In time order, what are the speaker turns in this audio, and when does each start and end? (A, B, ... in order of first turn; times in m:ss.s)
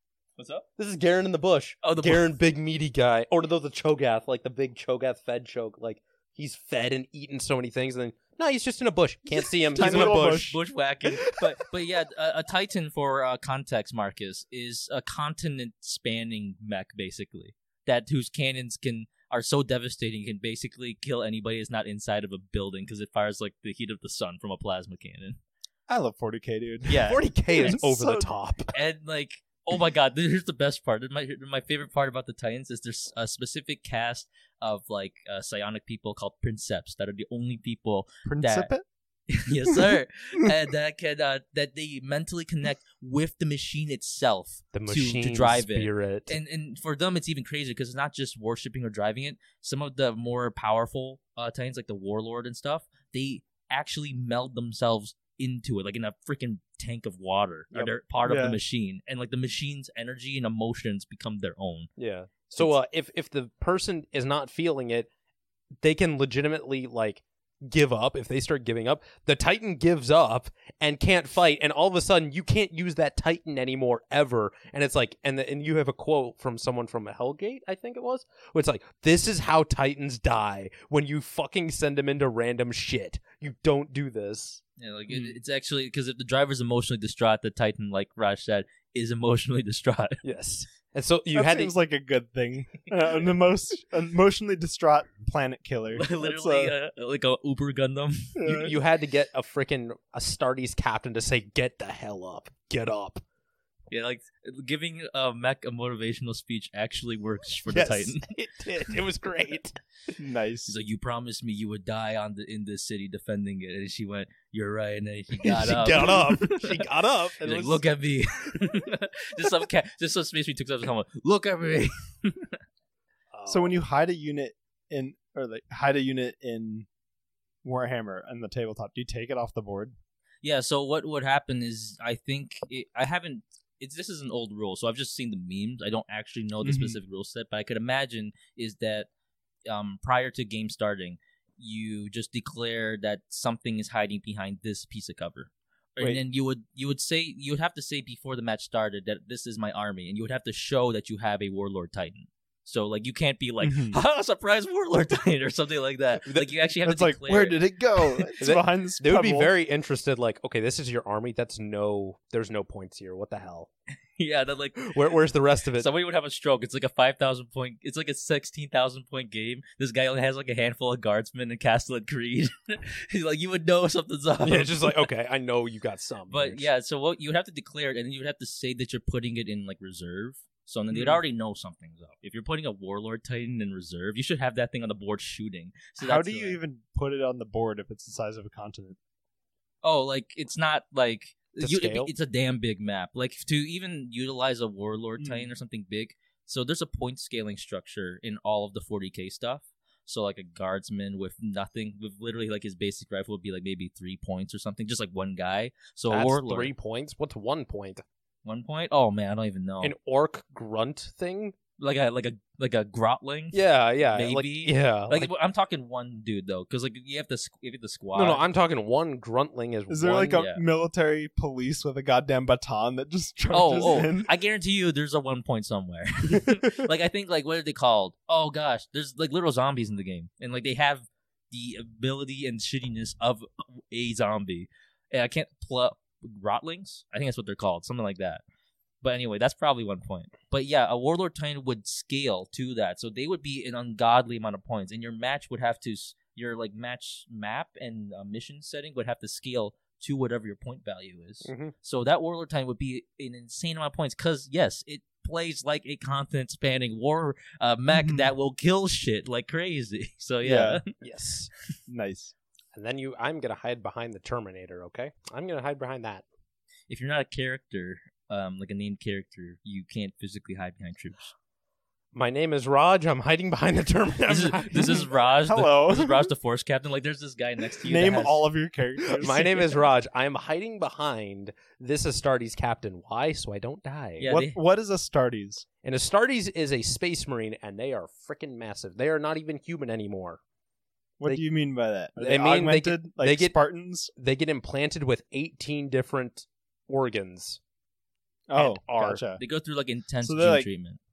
0:00.4-0:00.6 A
0:00.8-0:10.5 B
0:01.8-0:02.3 A
0:09.7-0:10.6 C
0:09.8-0:25.4 A
0:11.1-0:11.4 B
0:25.9-0:28.3 C
0:26.8-0:27.8 A
0:27.0-0:28.7 B
0:28.7-0:38.7 A
0:38.2-0:38.8 C
0:39.3-1:01.9 A
0:39.7-0:40.0 C
0:44.7-0:46.4 B
0:58.2-0:58.6 C
1:02.0-1:05.1 B
1:05.8-1:24.6 B
1:24.8-1:30.2 A
1:25.1-1:25.4 C
1:30.2-1:31.7 B
1:31.3-1:36.7 C
1:36.0-1:38.4 A
1:38.4-1:38.8 C
1:38.5-1:43.2 B
1:43.9-1:48.2 A
1:47.7-1:49.8 B
1:50.2-1:50.7 C
1:50.6-1:56.8 A
1:55.4-1:57.8 B
1:57.4-2:02.6 A
2:03.3-2:03.8 B
2:03.5-2:06.9 C
2:07.6-2:09.9 C
2:10.4-2:19.1 A
2:16.6-2:17.0 C
2:19.7-2:38.3 A
2:33.6-2:34.0 C
2:36.8-2:39.5 C
2:38.4-2:43.7 B
2:44.2-2:45.2 A
2:44.8-2:45.9 B
2:45.7-2:55.1 A
2:54.4-2:56.6 B
2:56.3-3:06.6 A
3:00.9-3:01.2 C
3:06.0-3:09.0 C
3:09.8-3:26.7 A
3:11.6-3:12.1 B
3:15.2-3:15.5 C
3:26.1-3:28.0 B
3:28.4-3:29.9 A
3:29.8-3:31.6 B
3:31.8-3:38.4 A
3:33.5-3:35.3 B
3:38.1-3:40.4 B
3:39.9-3:44.3 C
3:40.3-3:40.6 A
3:43.5-3:58.4 A
3:59.0-4:20.9 A
4:11.4-4:11.7 B
4:17.9-4:18.3 C
4:20.4-4:20.8 C
4:21.0-4:21.5 B
4:21.9-4:22.3 C
4:22.7-4:26.2 B
4:26.9-4:31.3 A
4:32.1-4:35.1 B
4:34.3-4:38.4 A
4:34.8-4:36.3 C
4:37.8-4:39.9 C
4:39.1-4:44.3 B
4:44.2-4:44.6 A
4:44.2-4:45.6 C
4:45.8-4:50.4 B
4:51.2-4:54.1 C
4:52.2-4:53.6 B
4:54.2-4:57.6 B
4:58.5-4:59.4 C
4:58.5-4:59.2 B
4:59.4-5:01.0 A
5:00.2-5:00.7 C